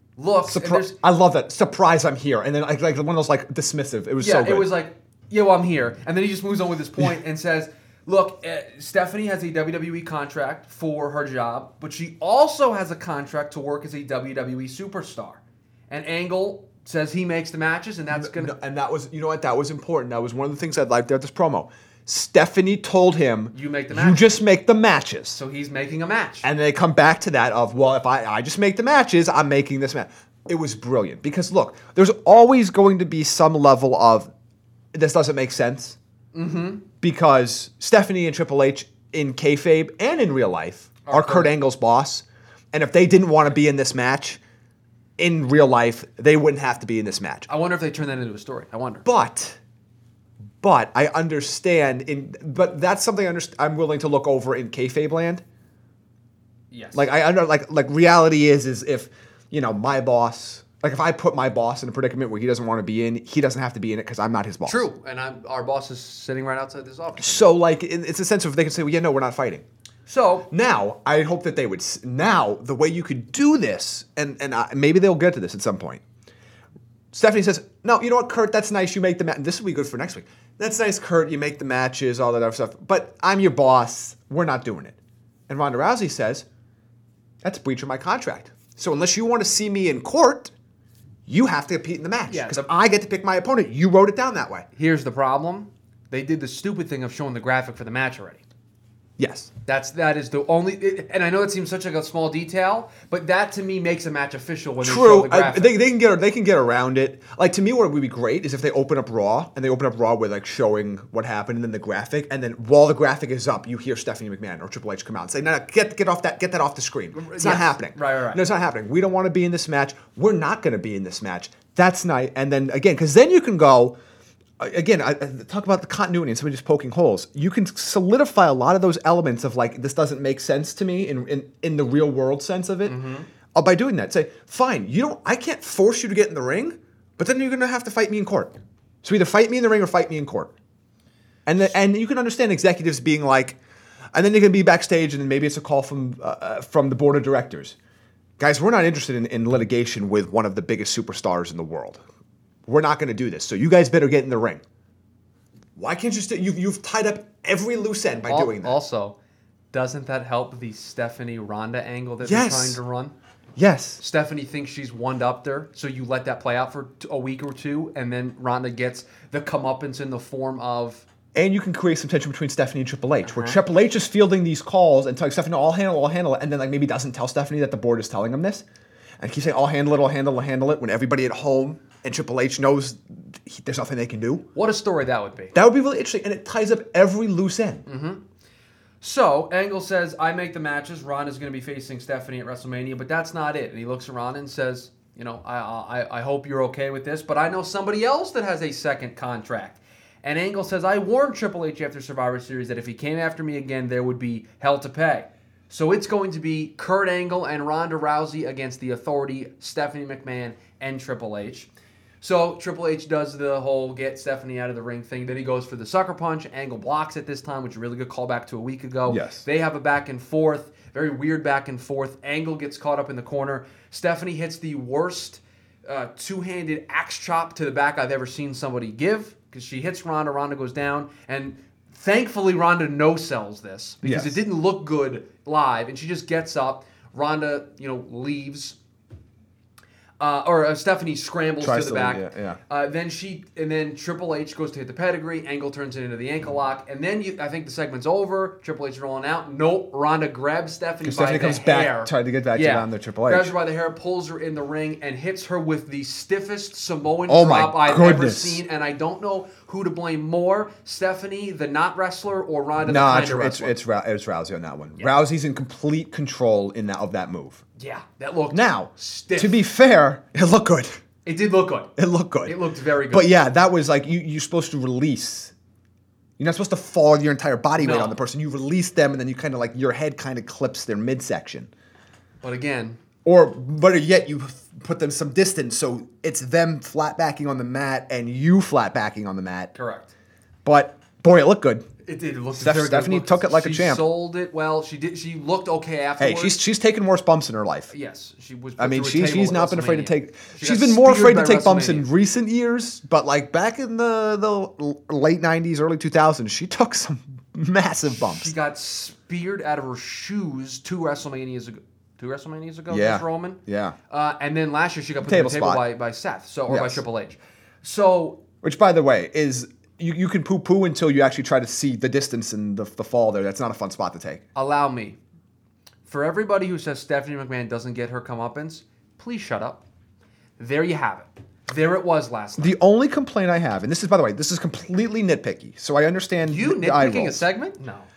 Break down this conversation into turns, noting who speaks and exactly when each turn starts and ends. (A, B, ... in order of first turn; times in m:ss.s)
0:00.2-0:01.0 A
0:00.5-0:04.7 B
0:04.2-0:18.5 A
0:18.1-0:25.4 B
0:23.5-0:24.4 A
0:25.3-0:26.5 A
0:26.4-0:34.3 B
0:34.9-0:36.0 B
0:36.3-0:36.8 A
0:37.0-0:44.4 B
0:41.0-0:41.5 A
0:45.2-0:47.5 B
0:47.5-0:49.0 A
0:49.0-0:49.6 B
0:50.6-0:55.4 B
0:56.7-0:57.1 A
0:56.9-1:04.9 B
1:04.6-1:07.5 A
1:07.2-1:09.6 B
1:10.1-1:10.5 A
1:10.5-1:16.0 B
1:17.1-1:25.0 B
1:25.5-1:26.4 B
1:27.4-1:30.5 B
1:31.3-1:34.6 B
1:32.3-1:32.7 A
1:34.8-1:38.4 A
1:39.2-1:39.5 B
1:39.6-1:45.8 A
1:44.8-2:04.0 B
1:57.1-1:58.4 A
2:04.6-2:13.0 B
2:12.8-2:13.3 A
2:13.5-2:20.5 B
2:21.4-2:23.6 B
2:24.1-2:27.8 B
2:28.4-2:32.0 B
2:32.6-2:34.6 B
2:35.8-2:38.8 B
2:38.3-2:39.2 A
2:39.7-2:43.1 A
2:42.2-2:42.8 B
2:43.6-2:44.0 B
2:44.0-2:51.0 A
2:51.3-2:58.6 B
2:53.2-2:53.6 A
2:59.2-3:04.5 B
3:04.5-3:05.6 A
3:05.5-3:07.8 B
3:07.8-3:08.2 A
3:09.0-3:31.7 A
3:32.2-3:58.8 A
3:39.0-3:39.4 B
3:54.0-3:54.4 B
4:00.2-4:23.8 A
4:01.6-4:02.6 B
4:11.0-4:13.5 B
4:17.3-4:18.6 B
4:22.8-4:27.6 B
4:27.8-4:29.6 A
4:28.5-4:31.0 B
4:31.2-4:31.9 A
4:32.0-4:32.6 B
4:32.4-4:33.3 A
4:33.1-4:35.5 B
4:36.4-4:41.7 B
4:37.8-4:38.2 A
4:42.4-4:43.0 A
4:43.2-4:49.7 B
4:49.7-4:50.1 A
4:50.6-4:51.9 B
4:52.0-4:56.6 A
4:52.6-4:54.0 B
4:56.2-4:57.9 B
4:57.9-5:02.1 A
4:58.8-5:08.5 B
5:08.1-5:18.4 A
5:12.9-5:14.0 B
5:15.2-5:15.8 B
5:16.7-5:17.0 B
5:18.6-5:24.4 B
5:24.5-5:25.2 A
5:26.1-5:29.8 A
5:30.6-5:32.8 A
5:32.6-5:37.4 B
5:36.4-5:38.1 A